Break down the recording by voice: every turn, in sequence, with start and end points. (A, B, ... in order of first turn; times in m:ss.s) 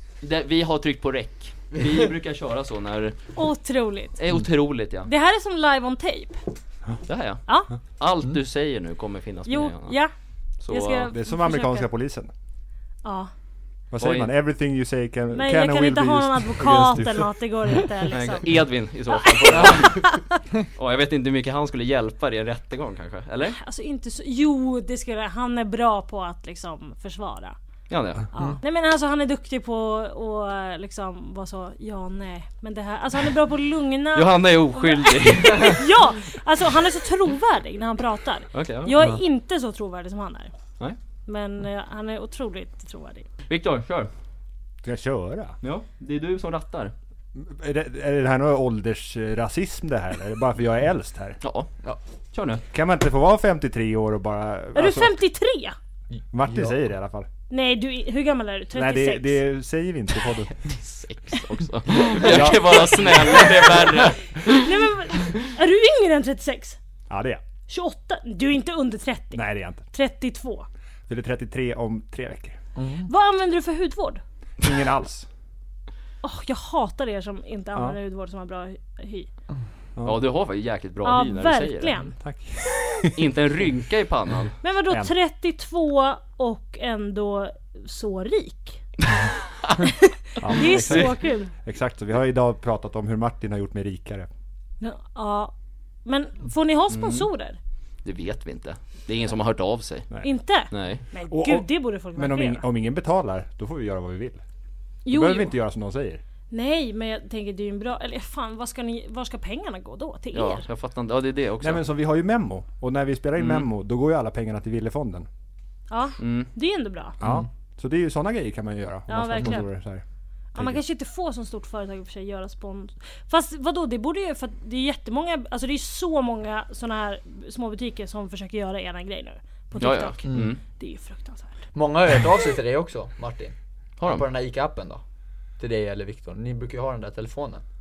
0:00.2-0:03.2 A
0:03.4-0:04.1 B
0:04.2-0:05.1 A
0:05.1-0:06.4 B
0:07.0-0:07.4 A
0:08.0-0:10.0 A
0:09.5-0:10.1 B
0:10.6-0:11.1 A
0:10.7-0:11.9 B
0:11.1-0:12.3 C
0:13.0-0:13.3 B
0:13.9-0:17.3 C
0:14.0-0:14.3 A
0:15.3-0:18.4 B
0:18.1-0:20.0 A
0:19.1-0:20.2 B
0:19.5-0:20.0 D
0:20.8-0:23.6 A
0:23.6-0:27.6 B
0:27.9-0:28.2 A
0:28.3-0:40.5 B
0:34.2-0:35.8 A
0:38.5-0:38.9 A
0:41.3-0:43.3 B
0:43.5-0:44.1 A
0:44.8-0:45.6 C
0:45.6-0:46.9 A
0:47.4-0:51.4 C
0:51.4-0:51.7 A
0:52.3-0:52.6 A
0:52.7-0:55.1 C
0:54.7-0:55.8 B
0:56.3-0:57.3 C
0:56.4-0:56.8 D
0:57.5-0:59.4 B
0:58.7-1:00.7 C
1:00.5-1:04.4 A
1:02.2-1:03.1 C
1:03.7-1:06.8 B
1:07.1-1:07.4 C
1:07.7-1:10.7 B
1:09.3-1:09.8 C
1:11.1-1:12.6 C
1:12.8-1:13.1 D
1:13.1-1:14.2 B
1:14.6-1:15.3 C
1:16.2-1:19.3 B
1:20.0-1:22.0 A
1:21.0-1:22.1 B
1:22.2-1:23.1 C
1:23.2-1:24.5 A
1:24.6-1:28.8 B
1:30.4-1:34.3 C
1:30.4-1:31.5 B
1:30.5-1:31.1 A
1:34.8-1:35.5 B
1:36.1-1:37.6 B
1:36.9-1:37.3 A
1:38.0-1:40.1 A
1:40.2-1:42.6 B
1:40.7-1:41.0 A
1:41.3-1:44.4 C
1:45.0-1:45.5 B
1:45.1-1:46.2 C
1:46.5-1:50.6 B
1:50.3-1:51.8 A
1:51.6-1:55.3 C
1:53.4-1:53.7 A
1:55.9-1:57.2 B
1:56.2-1:56.5 A
1:57.2-2:00.0 C
1:59.1-1:59.7 B
2:00.5-2:11.6 B
2:09.8-2:10.6 A
2:10.2-2:10.5 D
2:11.7-2:15.0 D
2:14.0-2:14.2 A
2:15.6-2:17.6 D